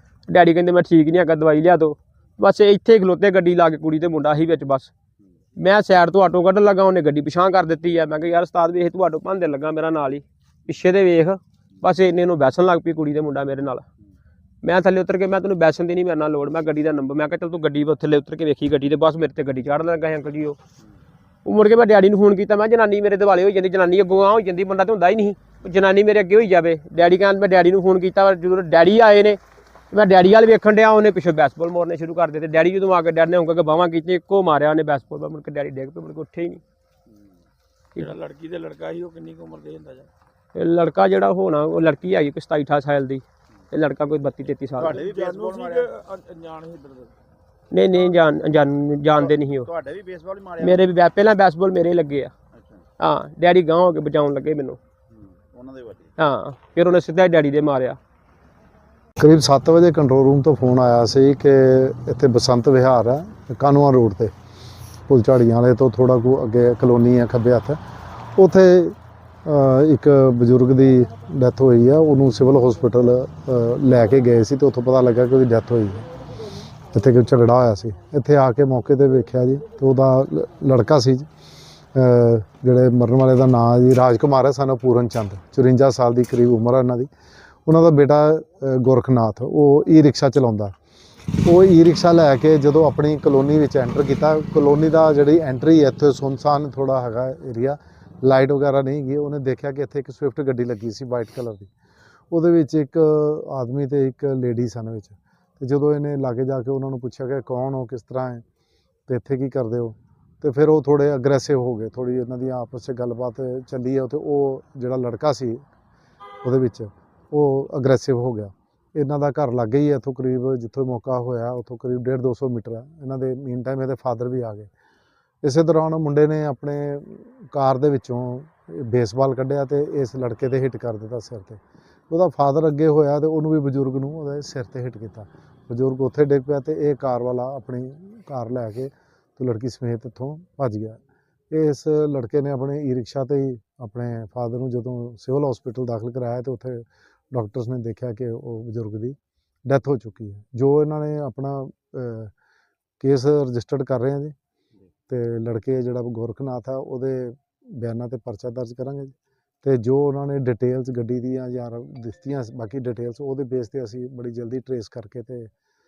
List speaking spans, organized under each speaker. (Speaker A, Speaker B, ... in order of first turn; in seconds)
Speaker A: 0.3-4.9, 5.6-13.8, 14.6-20.6, 21.4-29.4, 29.9-36.6, 40.5-45.0, 47.7-49.7, 50.6-52.3, 53.0-54.8, 56.2-58.0
Speaker B: 37.9-40.1, 44.9-47.1
Speaker C: 44.8-45.9, 49.1-50.8, 52.5-52.8, 55.1-56.1
Speaker D: 59.2-64.3, 65.1-67.8, 68.3-76.1, 76.9-81.3, 81.9-87.1, 87.7-90.8, 91.4-101.7, 102.3-108.4, 109.1-115.6, 116.4-124.7, 125.4-141.0, 141.5-152.3, 153.0-154.3, 155.1-165.5